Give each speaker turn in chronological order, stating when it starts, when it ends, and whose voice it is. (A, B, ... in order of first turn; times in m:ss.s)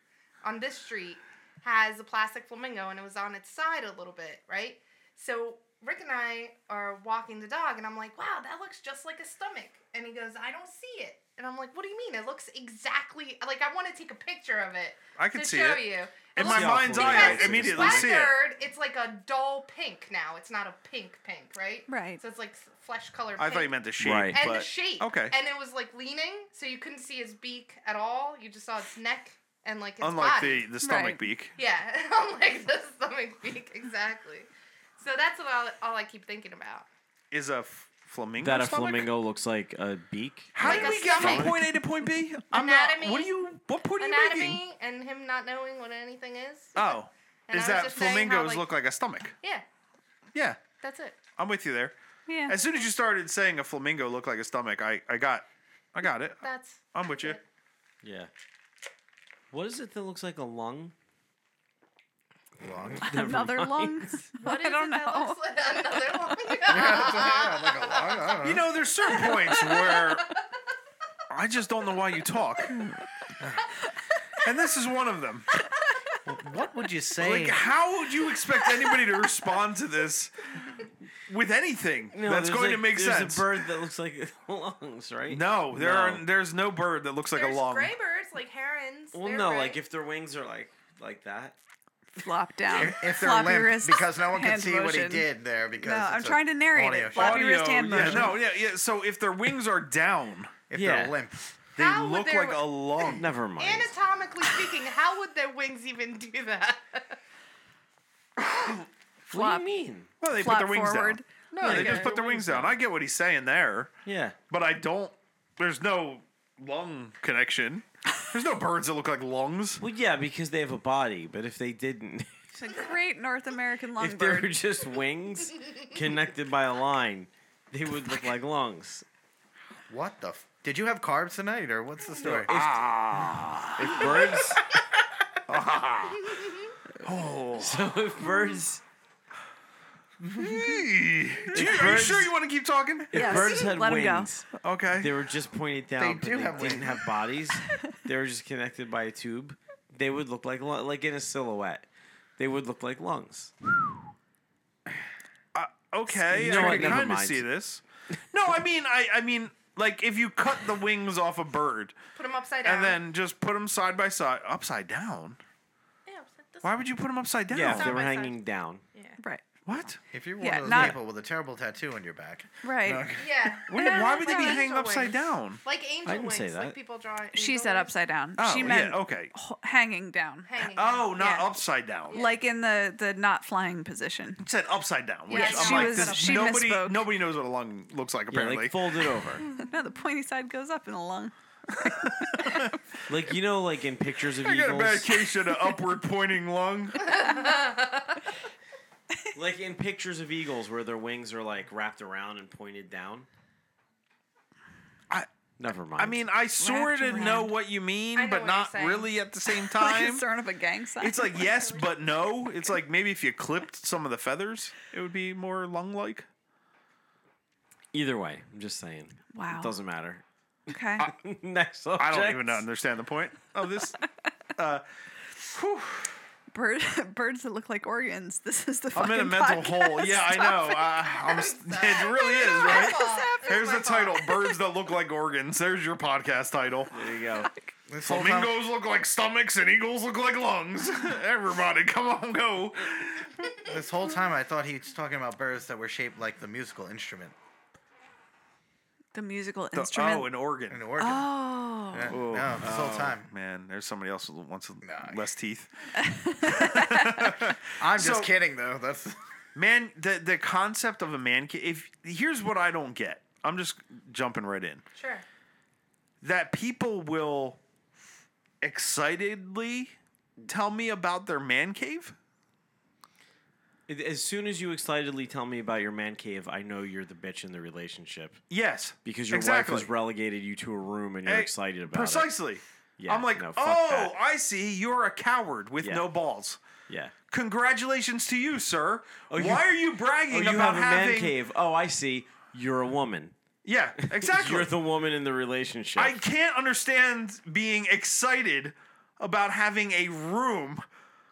0:00.4-0:23.8 A
0:15.2-0:15.8 B
0:16.3-0:18.4 B
0:16.4-0:18.2 C
0:21.9-0:22.2 D
0:23.4-0:25.4 B
0:24.0-0:24.4 C
0:24.3-0:30.7 A
0:30.0-0:31.5 B
0:30.8-0:31.2 D
0:31.6-0:36.9 A
0:37.3-0:39.1 B
0:38.4-0:41.5 C
0:40.6-0:44.6 B
0:40.6-0:41.6 A
0:42.5-0:43.4 A
0:44.0-0:48.7 A
0:46.8-0:49.3 B
0:50.3-0:50.6 B
0:50.8-0:51.2 A
0:51.4-0:52.0 B
0:52.3-0:52.6 D
0:52.5-0:56.4 B
0:56.4-0:57.4 A
0:56.9-0:57.4 B
0:58.0-0:58.3 C
0:59.5-1:00.9 C
1:02.6-1:03.0 E
1:02.9-1:04.2 C
1:03.0-1:05.4 D
1:04.4-1:08.5 A
1:06.7-1:08.8 E
1:08.4-1:10.3 B
1:09.1-1:10.4 A
1:11.3-1:13.1 B
1:14.4-1:15.5 B
1:16.3-1:17.7 E
1:17.2-1:20.5 B
1:21.3-1:23.5 B
1:22.1-1:26.2 C
1:25.3-1:27.9 B
1:27.3-1:29.8 A
1:29.1-1:31.6 C
1:32.2-1:35.3 D
1:32.7-1:38.3 E
1:35.8-1:38.4 D
1:37.1-1:40.5 B
1:40.7-1:41.5 E
1:40.7-1:41.2 C
1:41.8-1:43.3 B
1:41.8-1:47.2 A
1:43.1-1:43.9 C
1:48.4-1:48.8 B
1:49.3-1:50.1 C
1:49.3-1:49.6 D
1:50.2-1:53.9 B
1:50.3-1:52.1 D
1:51.6-1:52.8 C
1:54.0-1:54.4 C
1:54.5-1:59.8 B
1:59.8-2:02.6 C
2:02.6-2:04.5 D
2:04.0-2:09.1 C
2:09.9-2:12.5 E
2:12.2-2:14.6 C
2:12.2-2:14.2 B
2:15.5-2:17.9 B
2:17.6-2:18.8 C
2:20.3-2:20.8 E
2:20.3-2:23.6 B
2:21.5-2:22.3 C
2:23.1-2:24.5 C
2:23.1-2:24.3 D
2:24.6-2:25.1 B
2:25.0-2:31.9 C
2:26.0-2:27.0 E
2:32.4-2:33.5 C
2:35.5-2:42.0 B
2:36.1-2:37.5 C
2:42.2-2:43.0 A
2:42.6-2:45.4 B
2:46.1-2:46.8 A
2:46.6-2:48.0 B
2:47.5-2:48.8 C
2:47.6-2:48.4 A
2:49.2-2:49.4 D
2:49.7-2:50.0 B
2:50.1-2:53.6 E
2:50.4-2:51.0 D
2:50.7-2:51.0 C
2:52.6-2:53.1 D
2:53.2-2:58.0 A
2:53.7-2:55.6 B
2:53.8-2:54.6 D
2:56.0-2:56.8 C
2:57.3-3:00.5 D
2:58.4-2:59.3 B
3:00.5-3:01.4 A
3:00.8-3:02.2 B
3:01.2-3:01.5 D
3:02.1-3:02.4 A
3:02.1-3:04.4 D
3:04.4-3:09.0 B
3:05.3-3:06.6 A
3:05.3-3:07.1 D
3:08.3-3:09.4 C
3:09.4-3:12.7 D
3:11.8-3:12.7 B
3:13.1-3:15.2 C
3:14.4-3:17.1 B
3:17.0-3:18.2 A
3:17.1-3:17.6 D
3:19.3-3:23.3 C
3:25.6-3:26.3 C
3:26.0-3:30.3 B
3:26.6-3:27.5 D
3:28.2-3:29.1 A
3:29.6-3:31.7 D
3:31.0-3:36.3 B
3:37.9-3:40.2 C
3:39.3-3:39.8 D
3:40.7-3:41.1 D
3:41.0-3:42.6 C
3:42.0-3:44.0 B
3:44.6-3:44.8 B
3:45.5-3:46.2 B
3:46.5-3:51.0 D
3:48.9-3:56.9 B
3:51.2-3:54.3 A
3:52.5-3:53.5 D
3:56.9-3:57.5 C
3:57.9-3:58.6 E
3:58.0-4:03.5 B
4:03.7-4:07.4 E
4:09.1-4:10.4 D
4:09.7-4:11.0 B
4:10.7-4:11.3 E
4:11.0-4:12.2 D
4:11.9-4:13.3 E
4:12.1-4:18.3 B
4:12.6-4:13.2 C
4:14.8-4:15.2 E
4:16.0-4:17.3 D
4:17.8-4:19.2 E
4:19.6-4:24.8 B
4:25.0-4:25.2 A
4:26.2-4:27.6 B
4:28.6-4:32.2 B
4:33.9-4:38.4 C
4:38.5-4:39.9 B
4:39.0-4:42.3 C
4:41.3-4:46.6 B
4:43.0-4:44.2 C
4:45.8-4:46.1 C
4:46.9-4:47.1 C
4:47.3-4:51.3 B
4:49.3-4:49.8 C
4:50.3-4:53.3 C
4:53.6-4:54.7 B
4:54.0-4:56.2 C
4:56.0-5:00.8 B